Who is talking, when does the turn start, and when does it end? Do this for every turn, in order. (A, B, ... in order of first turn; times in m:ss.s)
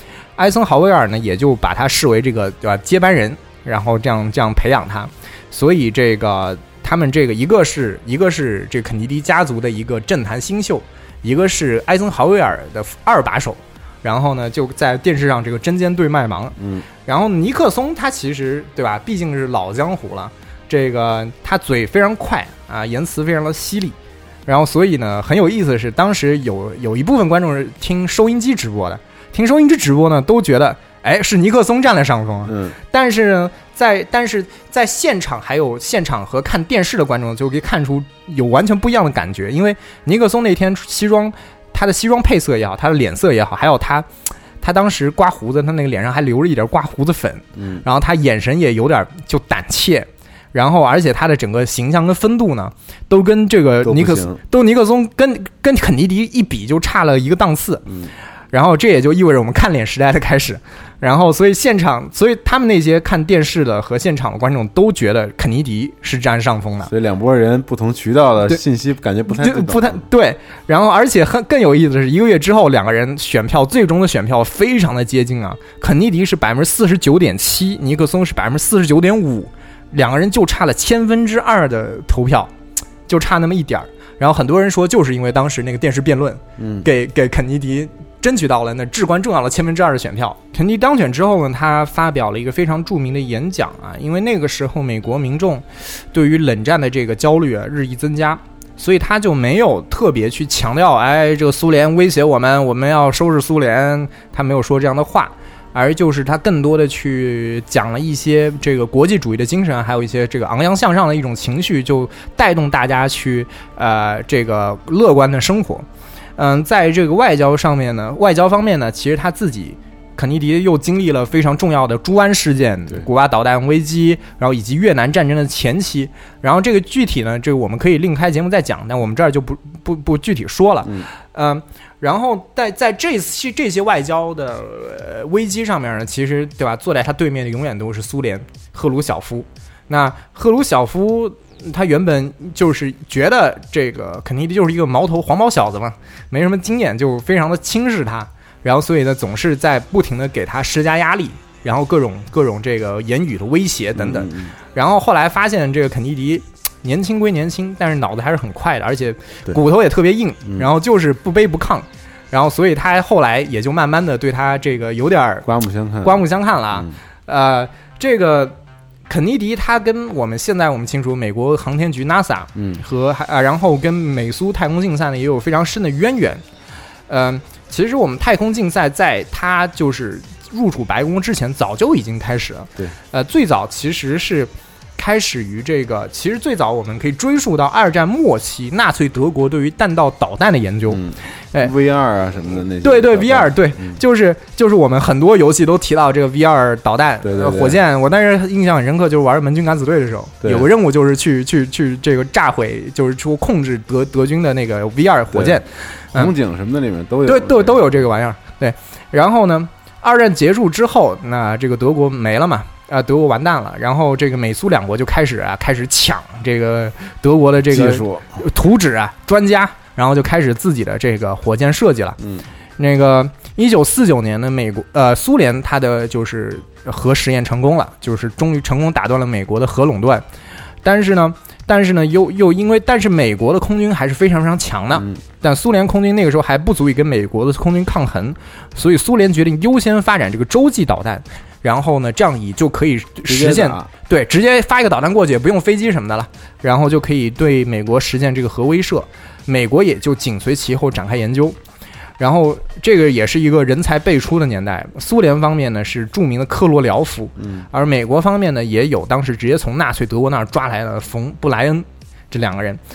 0:00.4-0:44.0 A
0:16.6-0:16.8 B
0:32.4-0:32.8 B
0:44.6-0:57.8 A
0:47.6-0:47.8 B
0:53.8-0:54.4 B
0:57.8-0:58.1 B
0:58.5-1:06.9 A
1:06.8-1:10.0 B
1:09.3-1:22.5 A
1:23.1-1:55.8 A
1:26.6-1:26.9 B
1:56.4-2:45.5 A
2:33.9-2:34.5 B
2:45.4-2:46.9 B
2:46.0-2:48.6 A
2:49.1-2:56.4 A
2:52.5-2:52.8 B
2:57.1-3:11.7 A
3:10.9-3:14.0 B
3:12.8-3:26.3 A
3:17.2-3:17.8 B
3:20.4-3:20.7 B
3:25.3-3:25.6 B
3:26.1-3:28.0 B
3:27.2-3:42.2 A
3:37.7-3:38.4 B
3:42.8-3:50.2 A
3:50.8-4:11.6 A
3:54.9-3:55.2 B
4:03.2-4:03.9 B
4:12.2-4:22.8 A
4:17.4-4:17.6 B